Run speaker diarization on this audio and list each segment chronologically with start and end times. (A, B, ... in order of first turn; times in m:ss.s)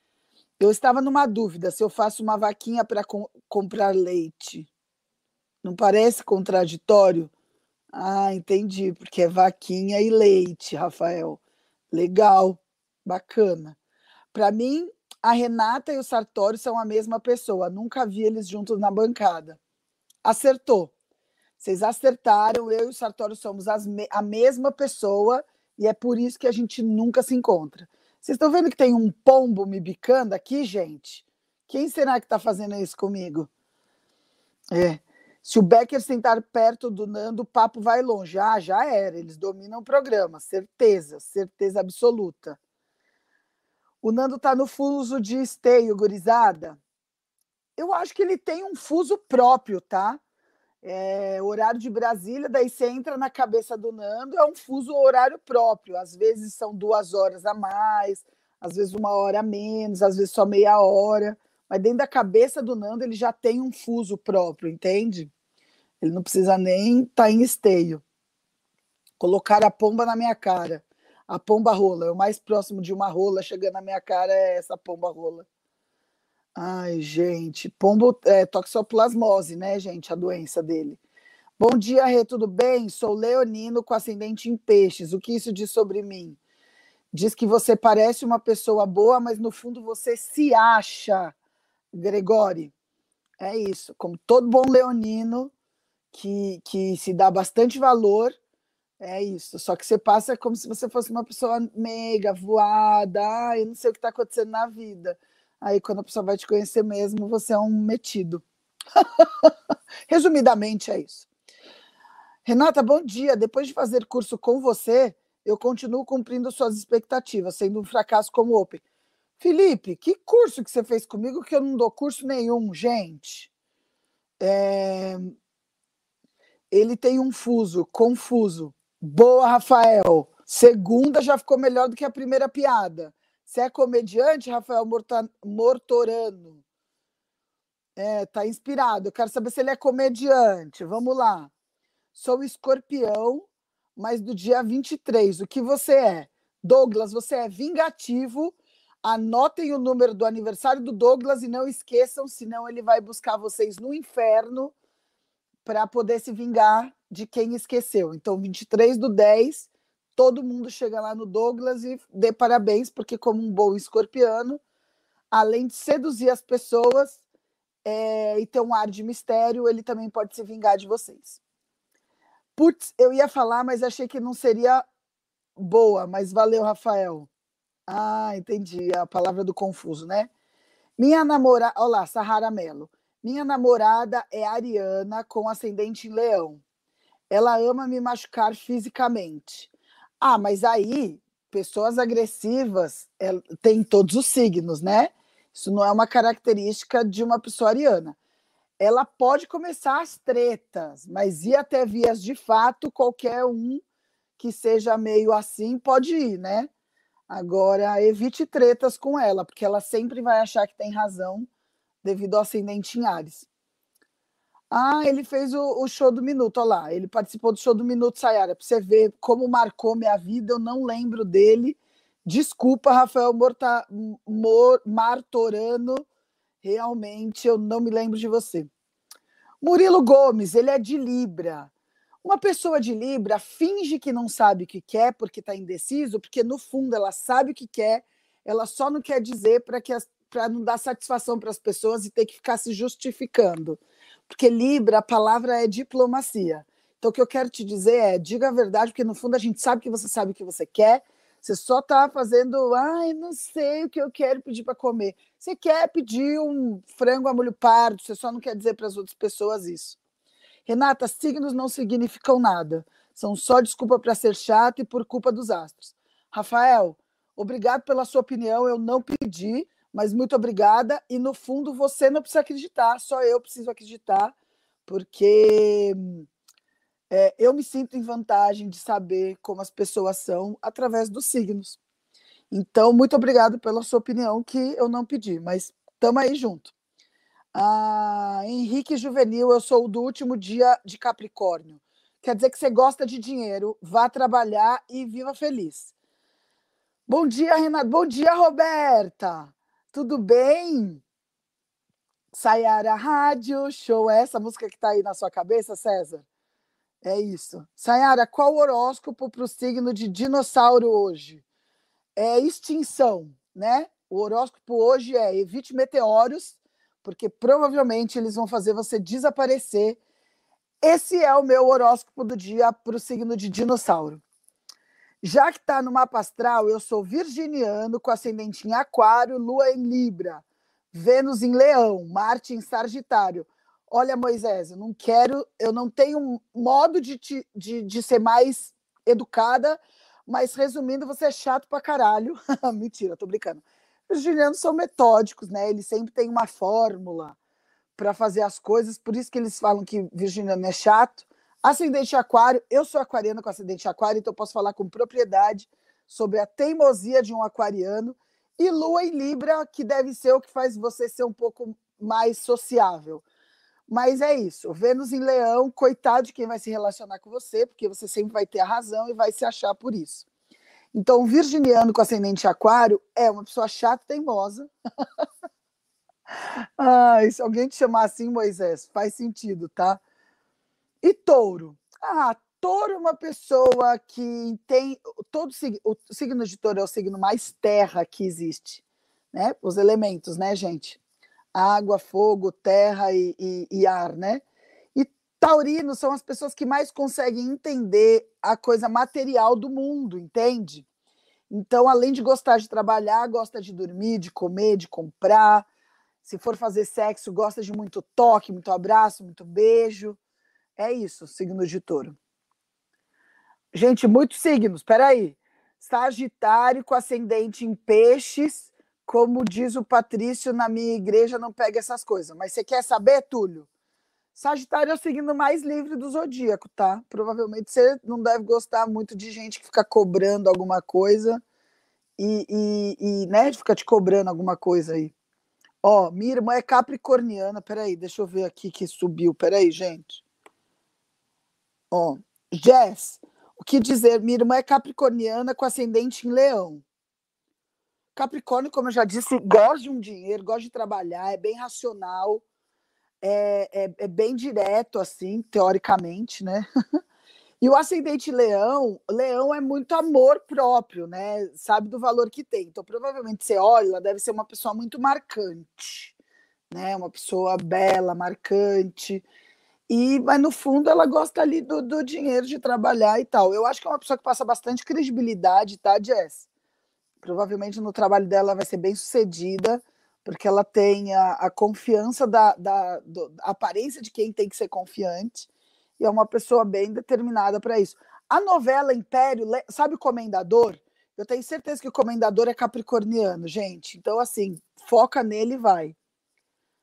0:00.6-0:04.7 A
0:05.6-0:07.3 A
0:07.9-0:11.4 A
0:11.9-0:13.8 A
0:14.3-0:19.6 A
0:20.2-0:20.9 A
0:21.6-0:33.5 A
0:34.7-0:42.6 A
0:44.0-0:46.8 A
0:47.8-0:50.2 A
0:50.8-1:05.3 A
1:06.0-1:08.0 A
1:09.2-1:15.4 A
1:16.6-1:21.0 A
1:21.6-1:26.4 A
1:27.1-1:31.3 A
1:31.9-1:32.7 A
1:33.4-1:35.5 A
1:36.1-1:38.3 A
1:39.0-1:48.4 A
1:49.0-1:49.5 A
1:50.1-1:51.2 A
1:52.4-1:58.8 A
1:59.4-2:03.5 A
2:04.4-2:05.3 A
2:06.7-2:16.6 A
2:18.0-2:21.5 A
2:22.1-2:23.4 A
2:24.0-2:34.7 A
2:35.6-2:44.6 A
2:45.3-2:47.2 A
2:47.8-2:51.4 A
2:52.6-2:54.8 A
2:55.6-2:57.3 A
2:57.9-3:00.3 A
3:01.0-3:06.6 A
3:07.3-3:09.7 A
3:10.2-3:18.2 A
3:18.8-3:23.8 A
3:24.4-3:26.7 A
3:27.3-3:31.5 A
3:32.0-3:33.4 A
3:34.7-3:46.0 A
3:46.6-3:48.7 A
3:49.6-3:51.7 A
3:52.2-4:20.0 A
4:20.7-4:34.3 A
4:34.8-4:36.2 A
4:37.1-4:41.8 A
4:42.5-4:46.7 A
4:47.5-4:55.9 A
4:57.1-5:01.0 A
5:02.3-5:06.2 A
5:07.0-5:11.4 A
5:12.2-5:20.0 A
5:20.8-5:24.2 A
5:25.2-5:47.3 A
5:48.0-6:03.2 A
6:03.9-6:10.2 A
6:10.9-6:14.7 A
6:16.8-6:20.0 A
6:21.0-6:28.8 A
6:29.3-6:31.0 A
6:31.5-6:34.4 A
6:34.9-6:40.8 A
6:41.5-6:45.7 A
6:46.2-6:50.2 A
6:50.8-6:52.2 A
6:53.7-7:03.7 A
7:04.3-7:11.4 A
7:12.2-7:15.1 A
7:15.8-7:20.2 A
7:21.9-7:26.8 A
7:28.1-7:32.4 A
7:33.2-7:36.7 A
7:37.6-7:46.1 A
7:46.7-7:49.2 A
7:49.9-7:56.4 A
7:57.2-8:05.5 A
8:06.0-8:15.9 A